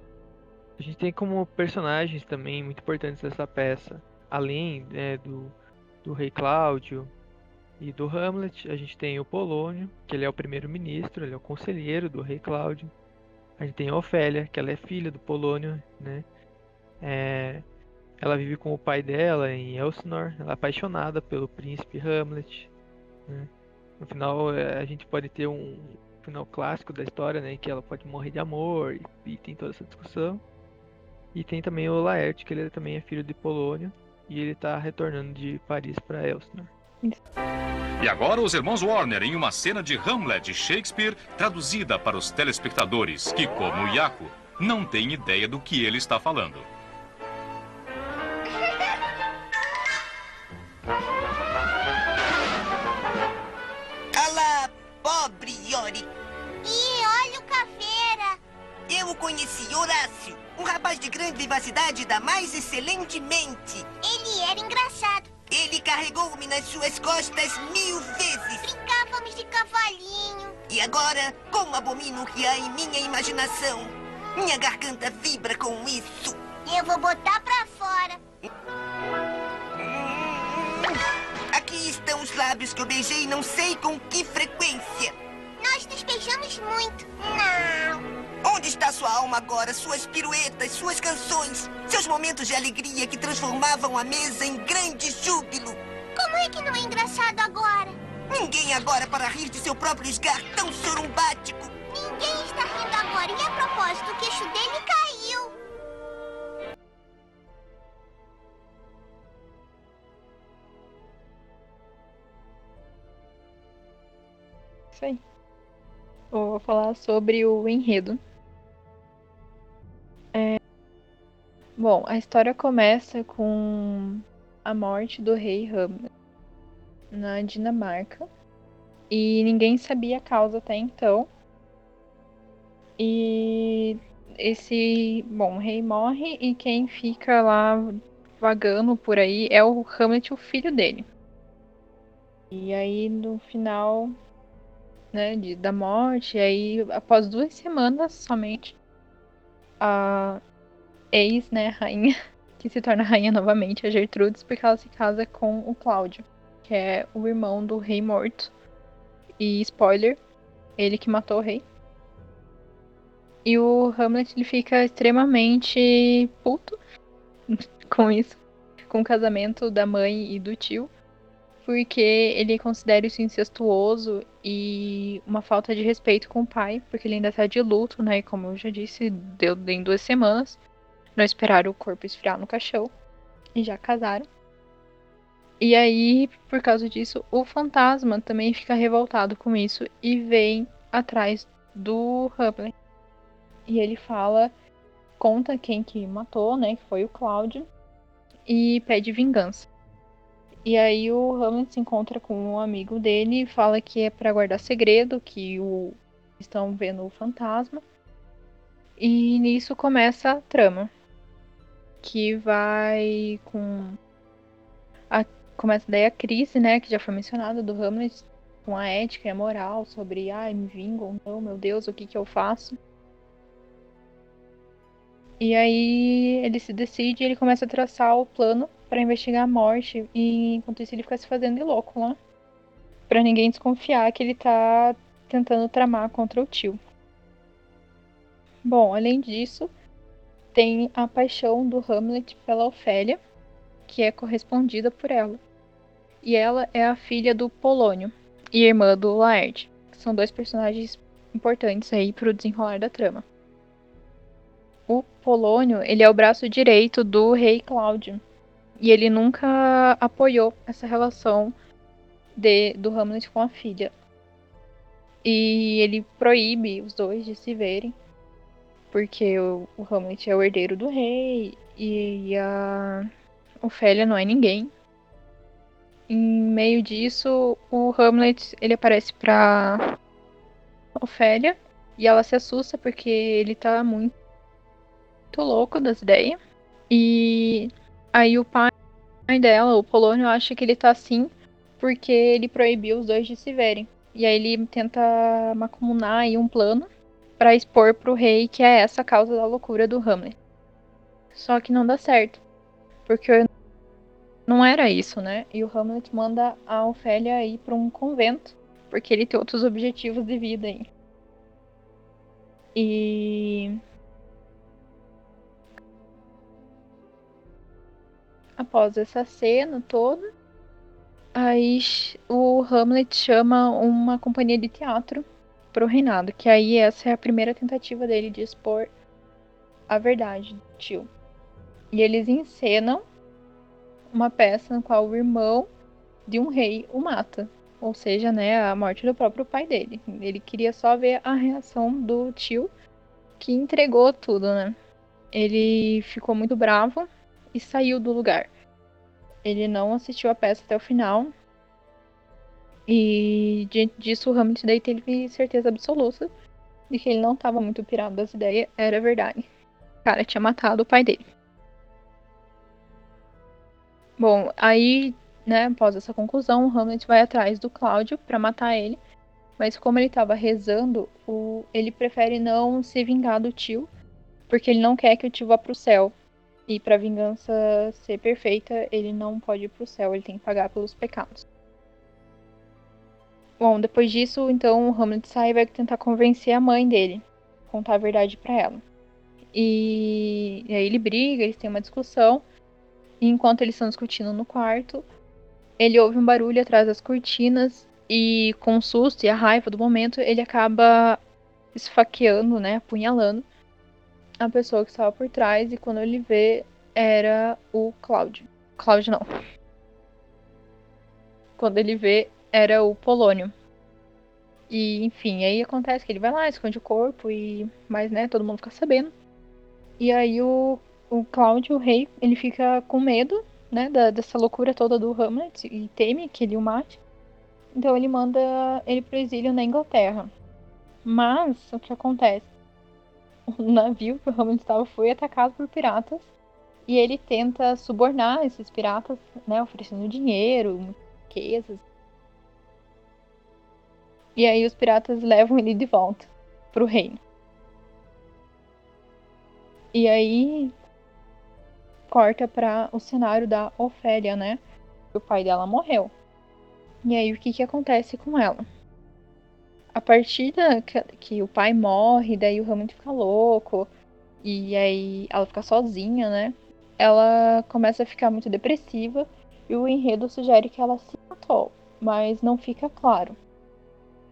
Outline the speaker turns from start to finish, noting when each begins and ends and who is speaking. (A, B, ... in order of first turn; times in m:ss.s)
0:00.8-0:07.1 A
0:07.8-0:12.9 A
0:13.6-0:16.2 A
0:17.0-0:17.6 A
0:18.2-0:22.7 A
0:23.3-0:30.4 A
0:31.3-0:36.7 A
0:38.0-0:46.7 B
0:54.1-0:56.1 C
0:56.6-0:58.4 D
0:58.9-1:03.9 C
1:04.0-1:05.3 D
1:05.5-1:08.6 C
1:08.6-1:10.6 D
1:10.7-1:16.5 C
1:16.6-1:18.2 D
1:19.8-1:21.0 C
1:21.5-1:25.1 C
1:25.6-1:27.1 D
1:27.4-1:35.8 C
1:36.2-1:38.0 D
1:38.3-1:41.8 C
1:41.9-1:45.5 D
1:54.9-1:55.2 E
1:56.3-1:58.2 E
2:00.3-2:00.6 E
2:01.8-2:06.1 E
2:07.1-2:08.3 E
2:09.1-2:11.3 E
2:13.0-2:21.1 E
2:22.5-2:24.2 E
2:25.1-2:28.8 E
2:29.8-2:30.4 E
2:31.1-2:38.5 E
2:39.4-2:40.2 E
2:40.8-2:41.6 E
2:43.4-2:46.8 E
2:47.5-2:50.9 E
2:51.6-3:00.6 E
3:01.2-3:02.9 E
3:03.6-3:04.3 E
3:05.6-3:12.7 E
3:13.7-3:14.5 E
3:15.2-3:17.7 E
3:18.5-3:19.7 E
3:20.6-3:27.8 E
3:29.0-3:30.9 E
3:32.0-3:34.0 E
3:35.1-3:42.8 E
3:45.4-3:52.2 E
3:53.1-3:56.8 E
3:58.6-3:59.7 E
4:00.5-4:03.2 E
4:03.9-4:05.4 E
4:06.2-4:13.2 E
4:14.9-4:18.2 E
4:18.8-4:21.5 E
4:22.4-4:23.9 E
4:25.2-4:28.0 E
4:28.9-4:33.1 E
4:33.6-4:34.7 E
4:36.1-4:39.9 E
4:41.0-4:44.1 E
4:45.3-4:46.4 E
4:46.9-4:48.7 E
4:49.3-4:56.9 E
4:57.4-5:00.4 E
5:01.4-5:02.4 E
5:03.1-5:03.5 E
5:04.5-5:10.9 E
5:12.8-5:13.8 E
5:18.6-5:20.2 E
5:21.3-5:28.9 E
5:29.9-5:31.1 E
5:31.9-5:33.0 E
5:34.1-5:35.7 E
5:36.3-5:42.7 E
5:43.4-5:44.8 E
5:45.3-5:48.5 E
5:49.4-5:51.3 E
5:52.9-5:56.3 E
5:56.9-5:59.4 E
6:00.0-6:01.2 E
6:04.2-6:09.0 E
6:09.6-6:13.9 E
6:14.5-6:16.1 E
6:16.7-6:21.4 E
6:23.6-6:28.8 E
6:29.5-6:32.4 E
6:33.2-6:35.1 E
6:35.8-6:41.2 E
6:41.7-6:43.4 E
6:44.4-6:49.3 E
6:51.6-6:53.5 E
6:54.7-6:59.1 E
7:00.0-7:07.0 E
7:07.7-7:10.3 E
7:11.0-7:12.5 E
7:13.5-7:16.3 E
7:16.9-7:21.8 E
7:24.4-7:27.2 E
7:29.9-7:30.7 E
7:32.1-7:34.6 E
7:35.1-7:36.1 E
7:37.0-7:38.6 E
7:39.9-7:43.9 E
7:44.4-7:53.4 E